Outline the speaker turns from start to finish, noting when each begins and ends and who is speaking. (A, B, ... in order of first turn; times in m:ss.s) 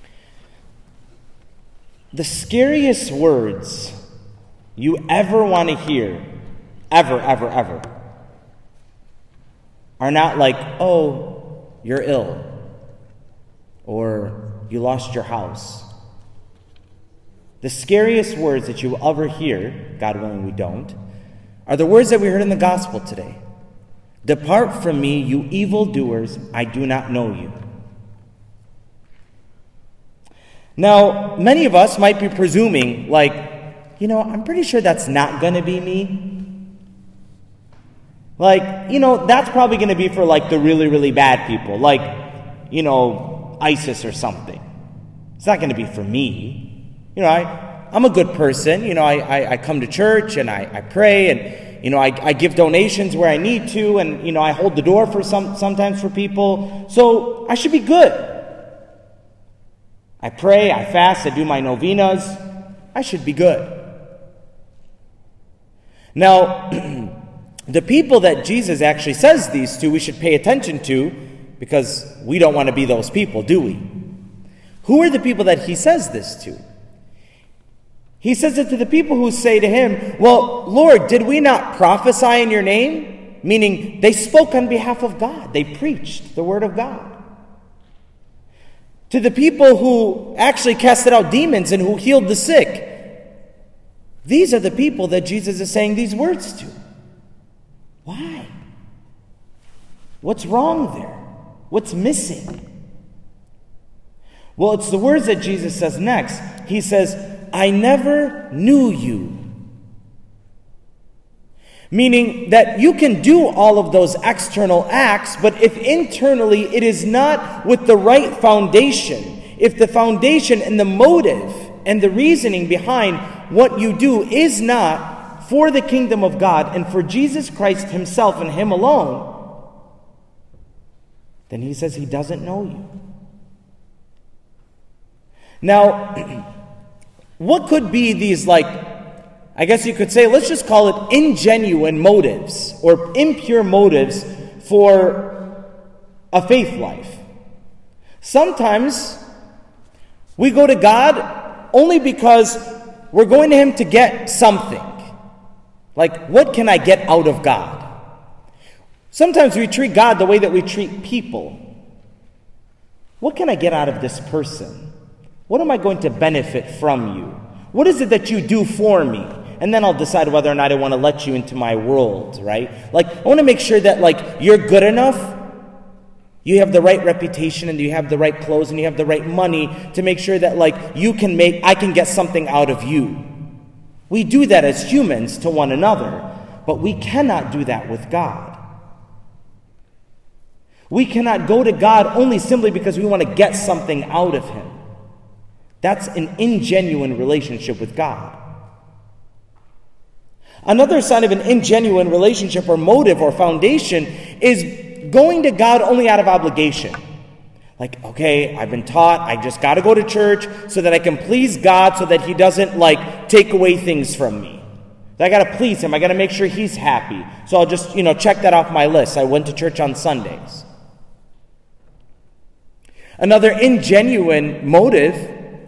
0:02.1-0:03.9 A
0:04.8-0:06.3 A
0:06.9-0:07.8 A
0:10.0-0:12.5 A
0:13.9-0:15.9 A
0:17.6-0:21.0 A
0:21.7-0:23.4 A
0:24.2-0:27.6 A
0:30.8-0:36.4 A
0:38.4-0:44.6 A
0:45.4-0:58.6 A
1:00.2-1:02.4 A
1:02.9-1:03.9 A
1:06.2-1:07.2 A
1:07.7-1:13.9 A
1:14.8-1:16.6 A
1:18.2-1:27.2 A
1:29.1-1:33.1 A
1:34.2-1:36.7 A
1:38.0-1:38.5 A
1:40.2-1:42.6 A
1:44.6-1:49.4 A
1:51.9-2:09.4 A
2:11.5-2:12.9 A
2:15.6-2:16.5 A
2:17.4-2:19.0 A
2:19.6-2:25.5 A
2:26.3-2:27.2 A
2:28.2-2:29.2 A
2:30.4-2:35.0 A
2:36.0-2:37.9 A
2:39.1-2:41.6 A
2:43.2-2:44.9 A
2:45.5-2:55.4 A
2:56.4-3:03.3 A
3:04.1-3:08.6 A
3:10.9-3:14.8 A
3:15.8-3:18.4 A
3:20.6-3:27.0 A
3:27.8-3:34.6 A
3:35.2-3:40.6 A
3:43.2-3:45.5 A